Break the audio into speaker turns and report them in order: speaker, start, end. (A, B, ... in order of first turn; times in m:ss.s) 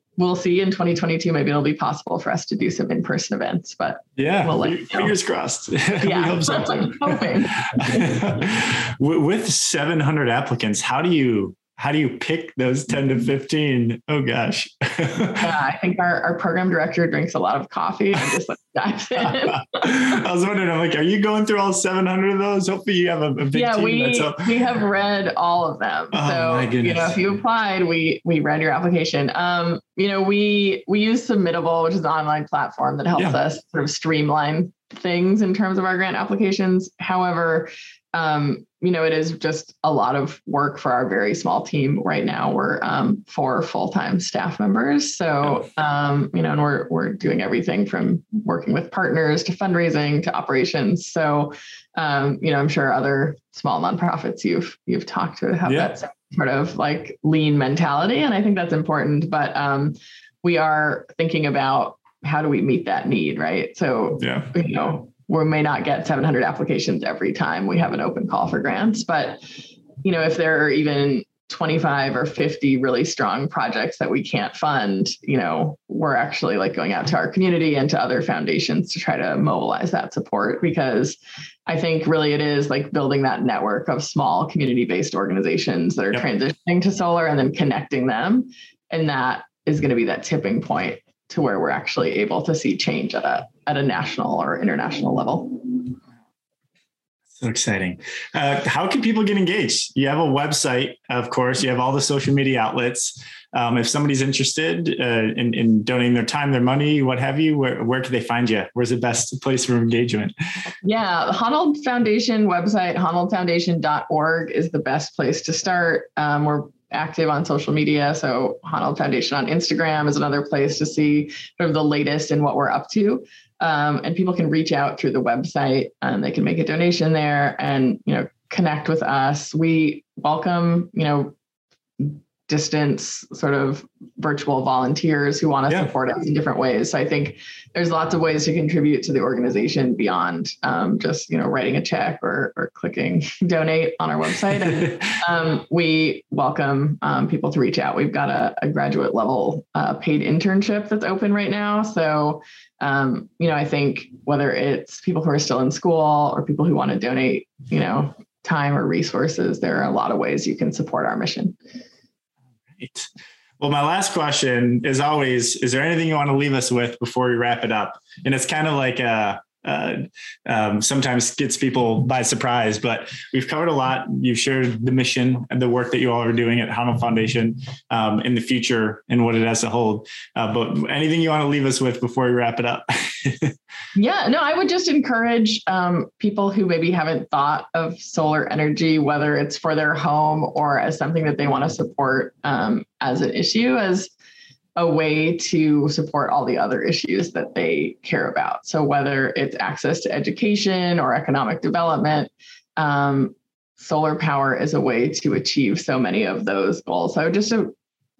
0:00.2-0:05.1 A
0:04.2-0:15.5 B
0:05.9-0:08.3 A
0:15.4-0:20.2 A
0:19.2-0:24.5 B
0:23.5-1:09.5 A
0:26.1-0:27.2 B
0:55.6-0:55.9 B
1:04.2-1:04.5 B
1:10.0-1:35.9 A
1:37.3-1:50.3 B
1:50.8-2:11.3 A
2:12.0-2:41.6 A
2:42.8-3:03.6 B
3:03.9-3:14.1 A
3:14.8-3:27.7 A